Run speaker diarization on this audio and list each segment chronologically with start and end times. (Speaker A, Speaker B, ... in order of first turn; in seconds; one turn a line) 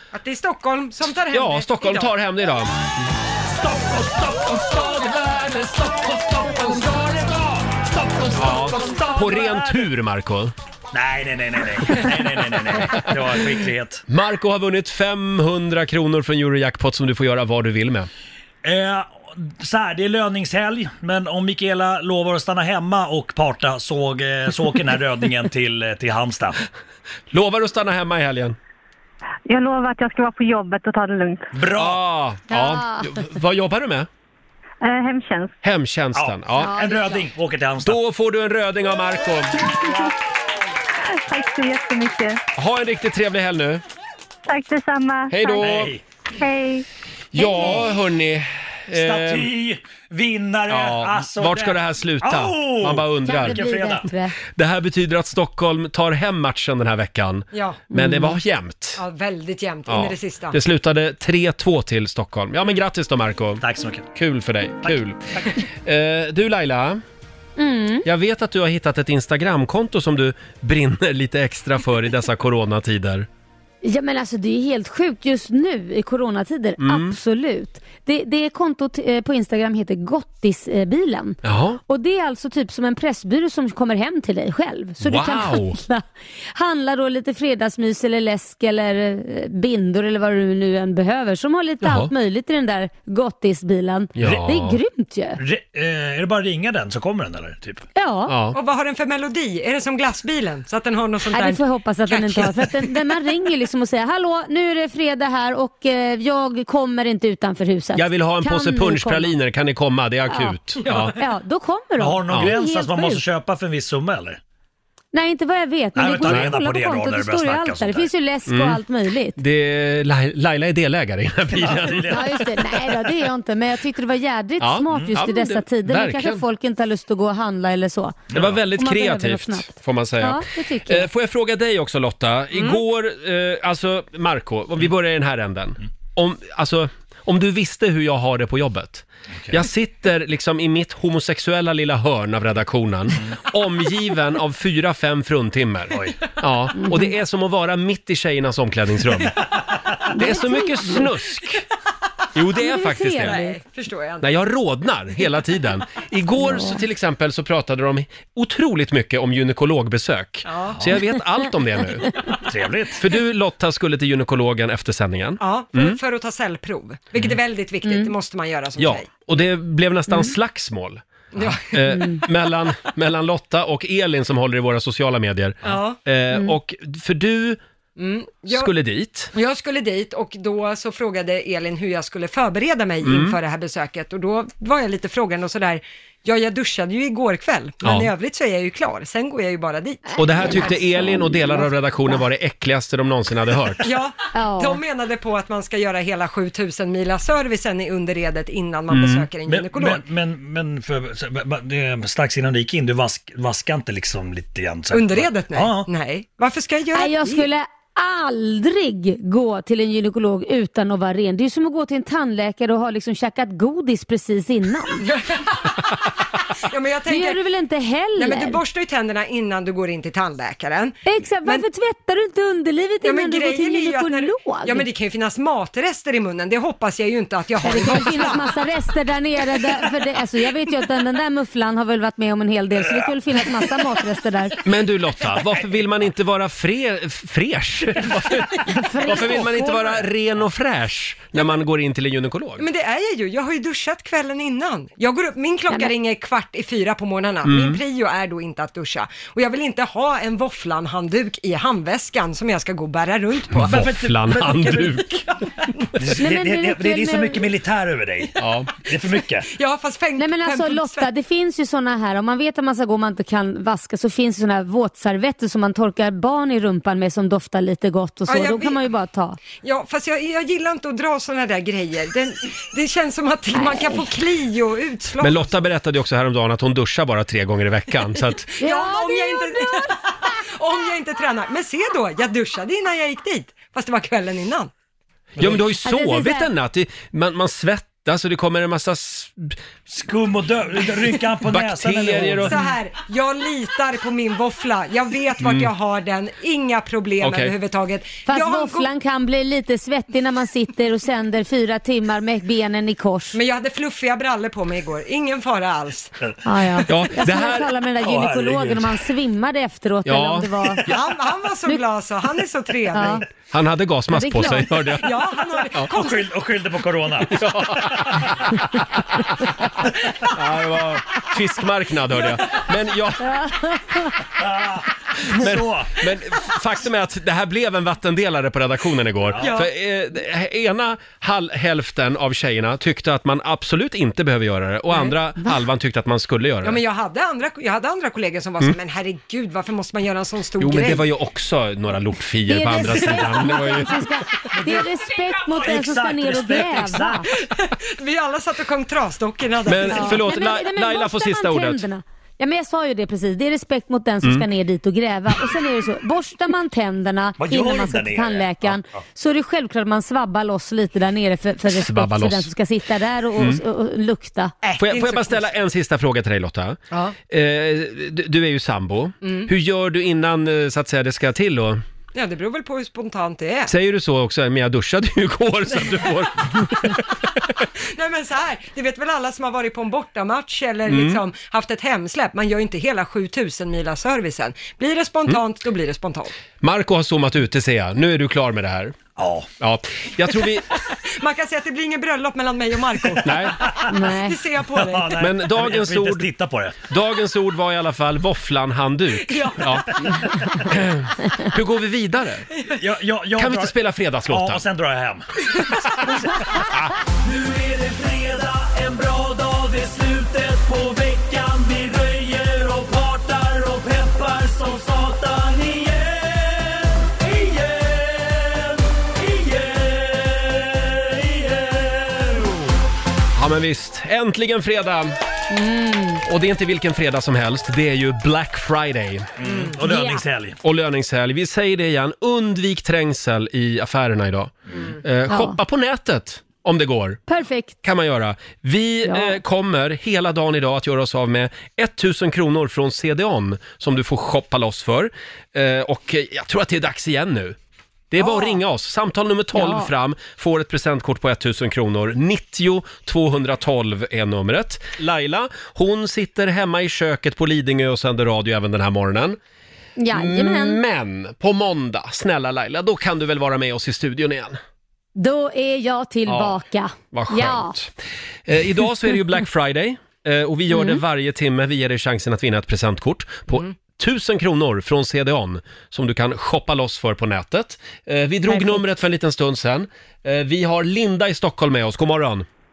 Speaker A: 0.1-2.1
Speaker B: 1.3-2.7
Speaker C: 3.5-9.9
Speaker B: 8.3-10.5
Speaker C: 10.9-14.0
Speaker B: 14.1-18.1
Speaker C: 18.6-26.6
Speaker B: 27.3-28.6
Speaker D: 29.5-31.5
Speaker C: 31.5-32.0
Speaker B: 31.7-34.1
Speaker E: 32.5-33.2
Speaker D: 34.8-35.5
Speaker B: 35.6-36.8
Speaker C: 36.1-38.0
Speaker E: 36.6-37.2
Speaker B: 37.8-39.6
Speaker D: 39.7-40.1
Speaker D: 41.3-42.4
Speaker B: 42.5-43.8
Speaker D: 44.5-45.6
Speaker B: 45.3-46.0
Speaker C: 45.6-46.0
Speaker D: 46.4-46.8
Speaker B: 47.3-49.5
Speaker E: 47.4-47.9
Speaker C: 48.9-54.1
Speaker B: 50.7-53.6
Speaker E: 53.2-54.4
Speaker B: 54.5-59.0
Speaker A: 57.5-57.8
Speaker E: 57.9-58.4
Speaker A: 59.0-60.6
Speaker B: 59.9-67.0
Speaker C: 63.6-64.1
Speaker C: 64.8-65.5
Speaker E: 67.6-68.0
Speaker B: 68.0-73.3
Speaker E: 73.8-95.4
Speaker B: 76.8-77.2
Speaker B: 81.4-81.8
Speaker B: 85.0-85.8
Speaker B: 91.8-92.1
Speaker B: 94.2-94.8
Speaker C: 95.4-97.8
Speaker E: 98.0-98.3
Speaker B: 98.3-98.5
Speaker A: 98.5-102.4
Speaker E: 101.3-109.3
Speaker B: 107.9-111.2
Speaker E: 110.3-113.2
Speaker C: 112.0-114.4
Speaker E: 115.1-119.4
Speaker C: 115.9-118.1
Speaker B: 116.2-116.5
Speaker B: 118.5-118.8
Speaker B: 119.3-122.2
Speaker C: 121.5-122.4
Speaker E: 122.1-131.1
Speaker B: 124.6-126.4
Speaker C: 124.9-125.2
Speaker C: 128.3-128.6
Speaker B: 128.3-149.3
Speaker C: 145.9-146.2
Speaker E: 146.8-147.1
Speaker E: 150.1-151.1
Speaker B: 150.1-151.6
Speaker B: 152.3-153.4
Speaker E: 152.5-153.6
Speaker A: 153.2-154.3
Speaker B: 154.2-162.1
Speaker E: 156.4-156.8
Speaker A: 160.4-160.8
Speaker C: 162.5-163.0
Speaker B: 163.0-166.0
Speaker A: 165.4-169.1
Speaker E: 167.8-168.1
Speaker B: 168.8-177.6
Speaker A: 171.3-171.7
Speaker E: 171.9-172.2
Speaker A: 175.6-176.0
Speaker E: 176.3-176.6
Speaker A: 178.0-178.7
Speaker B: 178.5-179.3
Speaker A: 179.3-190.6
Speaker B: 183.0-183.4
Speaker B: 187.8-188.1
Speaker E: 190.1-192.2
Speaker B: 190.2-193.8
Speaker A: 193.8-200.0
Speaker E: 194.3-194.8
Speaker B: 198.9-199.2
Speaker C: 199.5-205.9
Speaker A: 204.9-207.4
Speaker E: 206.9-215.0
Speaker A: 215.0-215.9
Speaker A: 216.6-217.4
Speaker E: 217.1-218.6
Speaker A: 218.2-221.6
Speaker E: 221.1-224.8
Speaker A: 223.0-228.5
Speaker E: 227.6-234.6
Speaker B: 234.6-242.6
Speaker E: 238.7-239.5
Speaker A: 242.6-253.8
Speaker B: 247.4-247.8
Speaker B: 253.5-255.2
Speaker C: 253.6-255.2
Speaker C: 256.0-259.5
Speaker E: 256.1-257.5
Speaker B: 258.4-258.7
Speaker A: 259.5-261.1
Speaker E: 260.2-269.4
Speaker A: 268.3-268.8
Speaker A: 269.5-275.5
Speaker E: 273.5-274.0
Speaker B: 275.2-278.5
Speaker A: 278.6-284.7
Speaker E: 278.6-279.9
Speaker B: 285.4-289.5
Speaker E: 285.8-286.5
Speaker C: 289.9-292.6
Speaker B: 291.4-292.5
Speaker A: 292.5-298.9
Speaker B: 295.4-295.7
Speaker B: 297.2-297.5
Speaker E: 298.2-303.4
Speaker A: 303.3-306.1
Speaker E: 306.4-310.8
Speaker B: 306.9-307.7
Speaker C: 308.0-309.0
Speaker B: 310.1-310.5
Speaker A: 310.9-313.2
Speaker E: 312.9-313.2
Speaker B: 313.5-315.1
Speaker E: 314.1-314.8
Speaker A: 315.0-316.3
Speaker C: 315.9-318.3
Speaker B: 317.3-318.3
Speaker B: 320.3-323.5
Speaker E: 323.6-324.1
Speaker C: 324.4-326.0
Speaker B: 325.2-336.8
Speaker C: 329.3-329.6
Speaker A: 329.4-329.7
Speaker A: 336.6-341.0
Speaker B: 340.6-344.0
Speaker E: 342.5-347.2
Speaker C: 344.6-347.2
Speaker A: 347.3-350.3
Speaker B: 349.7-351.8
Speaker E: 349.8-364.5
Speaker C: 357.4-359.0
Speaker B: 361.8-362.5
Speaker B: 363.4-363.6
Speaker A: 364.6-365.4
Speaker B: 364.8-366.8
Speaker A: 366.9-367.1
Speaker B: 367.3-371.8
Speaker A: 369.2-369.5
Speaker A: 372.1-373.7
Speaker B: 373.7-377.0
Speaker A: 377.8-386.3
Speaker B: 380.9-381.2
Speaker B: 386.6-388.9
Speaker C: 389.2-389.5
Speaker B: 389.6-390.7
Speaker A: 390.8-395.2
Speaker B: 393.2-393.6
Speaker E: 393.9-394.4
Speaker C: 394.7-396.8
Speaker B: 395.2-396.3
Speaker B: 396.9-402.4
Speaker A: 399.2-399.6
Speaker C: 402.7-403.8
Speaker B: 403.4-404.6
Speaker C: 404.3-405.3
Speaker C: 406.0-406.4
Speaker C: 407.1-422.7
Speaker B: 423.4-425.1
Speaker E: 425.5-426.2
Speaker B: 426.2-429.3
Speaker C: 429.4-430.6
Speaker E: 429.9-430.2
Speaker B: 430.6-437.2
Speaker E: 435.3-435.6
Speaker E: 437.3-437.8
Speaker B: 437.8-447.6
Speaker E: 439.1-439.4
Speaker B: 448.1-459.4
Speaker E: 449.5-449.9
Speaker E: 460.0-460.8
Speaker B: 460.1-464.6
Speaker E: 465.1-467.7
Speaker B: 466.3-466.6
Speaker B: 467.1-467.9
Speaker B: 468.5-482.4
Speaker E: 470.7-471.0
Speaker E: 478.5-478.8